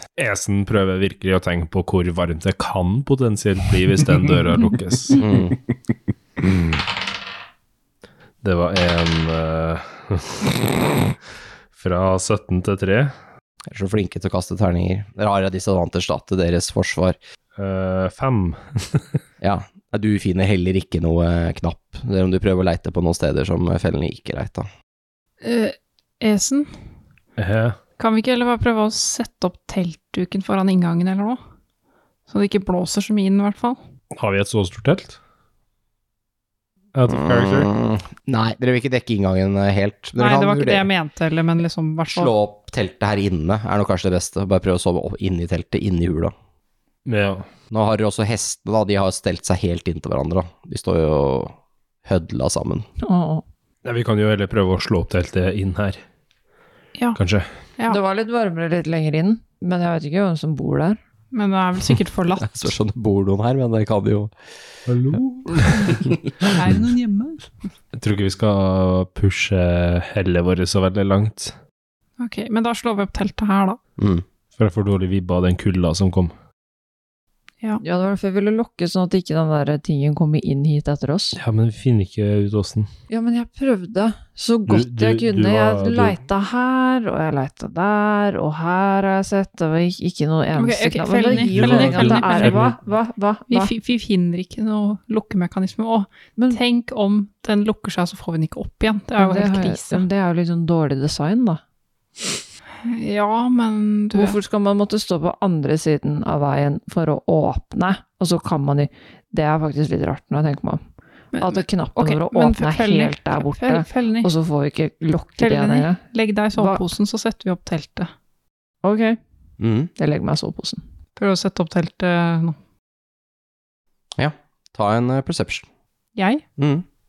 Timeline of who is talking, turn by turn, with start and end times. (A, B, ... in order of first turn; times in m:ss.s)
0:00.2-0:05.3 A
0:05.2-0:05.6 B
0:08.4-0:10.6 A
0:11.7-0:13.1 A
0:13.7-0:17.2 B
0:17.6-0:19.1 A
0:19.4-0:24.7 B
0:25.4-0:26.7 C
0:27.4-0:27.8 A
0:28.0-0:31.4 C
0:32.3-0:33.8 C
0:34.1-0:35.2 A
0:36.9-0:37.7 A
0:37.1-0:40.9 B
0:40.2-0:42.3 C
0:42.1-0:46.3 B
0:47.1-0:47.5 A
0:47.7-0:52.9 B
0:53.0-0:53.4 D
0:53.8-0:56.0 A
0:57.2-0:57.5 A
0:57.9-1:01.0 D
1:01.3-1:02.7 C
1:02.4-1:04.3 B
1:04.9-1:06.1 A
1:06.5-1:07.5 C
1:07.9-1:11.6 A
1:12.2-1:13.8 C
1:14.0-1:14.2 B
1:14.6-1:16.3 A
1:17.8-1:21.4 D
1:21.4-1:22.9 A
1:23.1-1:33.7 D
1:24.7-1:26.2 A
1:30.5-1:32.6 C
1:31.3-1:32.8 A
1:33.5-1:40.0 C
1:39.2-1:41.6 D
1:42.8-1:44.4 C
1:44.1-1:50.8 D
1:51.3-1:54.3 C
1:51.4-1:56.0 D
1:55.4-1:58.1 C
1:56.6-1:56.9 D
1:58.8-1:59.2 D
1:59.6-1:59.9 B
2:00.0-2:00.8 D
2:01.2-2:02.6 C
2:04.2-2:05.7 B
2:06.2-2:06.4 C
2:06.6-2:06.8 B